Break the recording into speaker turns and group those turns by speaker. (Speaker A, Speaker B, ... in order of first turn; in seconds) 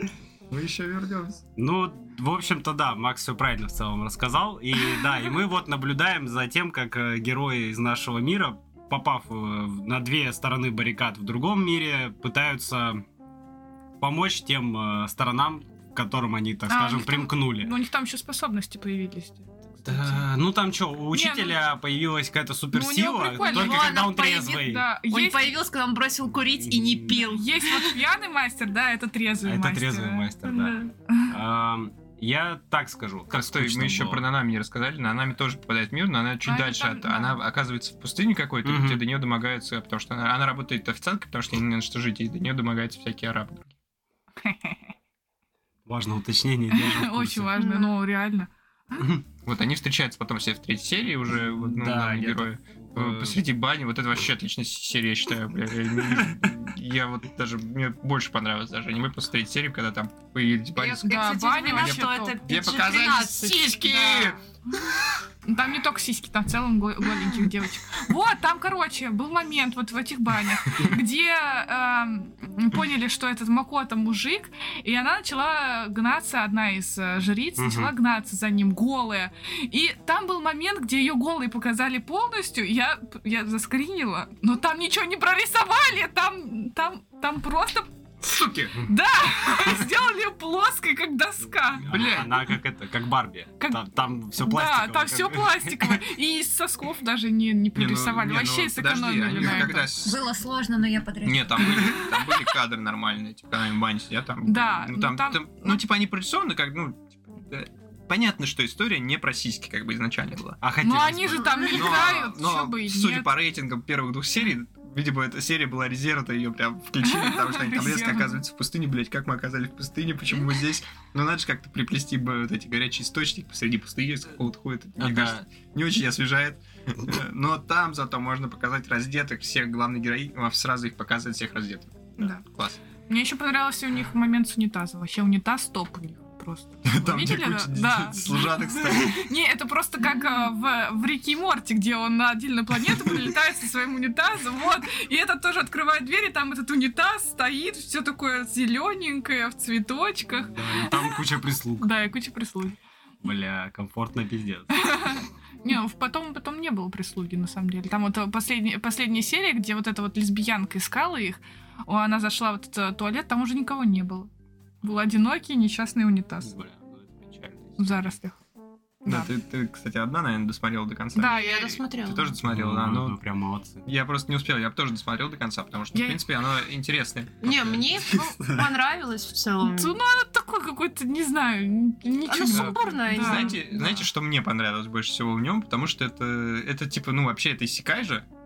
Speaker A: 0.5-1.4, 33.3-43.7, 49.5-64.4, 88.2-88.8, 91.9-92.6, 97.8-100.2, 101.2-110.6, 111.7-132.8, 136.8-139.3, 169.1-173.2, 173.8-177.8, 182.5-188.3
Speaker B: 1.6-13.0, 14.0-17.7, 19.9-24.9, 26.5-27.3, 29.4-34.3, 38.6-39.0, 45.9-47.5, 51.4-53.4, 77.6-77.9, 91.8-96.0, 110.6-112.0, 125.0-125.4, 150.5-151.9, 153.2-155.2, 166.4-168.2, 172.4-173.8, 178.1-178.7
Speaker C: 16.7-20.2, 21.1-21.6, 22.7-25.6, 27.1-30.3, 36.5-37.4, 44.4-44.9, 46.7-49.1, 61.0-62.4, 65.5-87.9, 88.8-91.8, 93.6-99.9, 104.5-105.8, 110.8-113.3, 117.0-118.4, 132.2-132.4, 133.1-151.2, 151.8-152.8, 154.8-164.3, 164.8-166.6, 167.8-168.3, 169.1-169.3, 171.2-171.8, 175.9-176.2, 179.6-183.9
Speaker D: 23.4-28.0, 30.4-30.9, 47.6-47.9, 60.8-64.3, 171.2-172.4, 177.4-180.0, 182.3-183.9
Speaker E: 100.0-102.0